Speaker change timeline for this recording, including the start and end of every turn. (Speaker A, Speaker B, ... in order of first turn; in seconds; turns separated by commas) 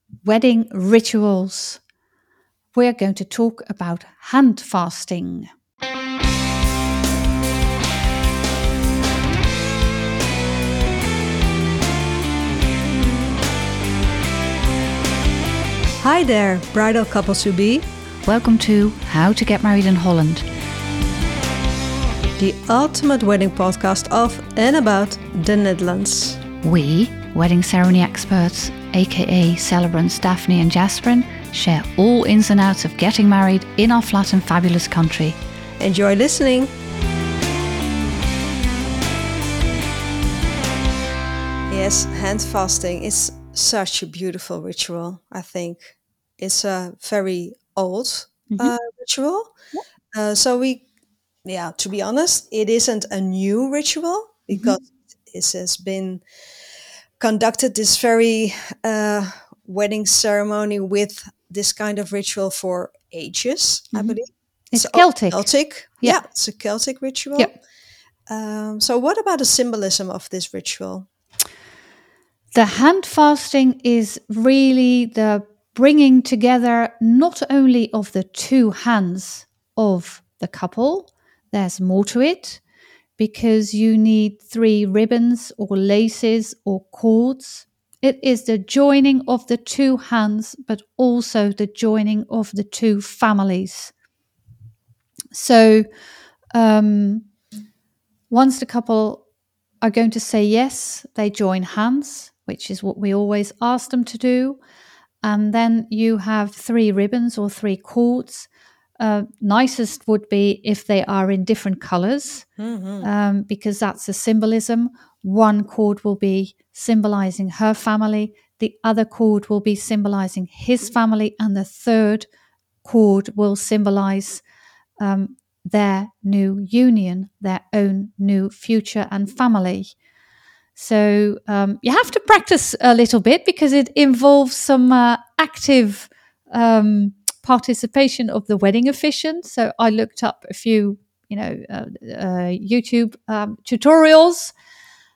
Speaker A: 0.2-1.8, Speaker A: 2.7-5.5, Speaker B: 16.0-17.9, Speaker A: 18.2-20.5, Speaker B: 22.4-26.4, Speaker A: 26.6-35.4, Speaker B: 35.8-36.7, Speaker B: 41.7-49.5, Speaker A: 48.5-48.8, Speaker B: 50.1-50.9, Speaker B: 51.5-56.2, Speaker B: 57.2-67.5, Speaker A: 64.7-65.5, Speaker B: 68.3-71.1, Speaker A: 72.5-82.6, Speaker A: 83.2-93.9, Speaker A: 95.3-95.9, Speaker A: 96.5-97.3, Speaker A: 98.3-99.2, Speaker A: 99.8-104.6, Speaker A: 105.2-108.5, Speaker A: 109.0-112.5, Speaker B: 112.6-113.1, Speaker A: 113.0-122.3, Speaker A: 122.8-124.4, Speaker A: 125.0-129.9, Speaker A: 130.8-144.5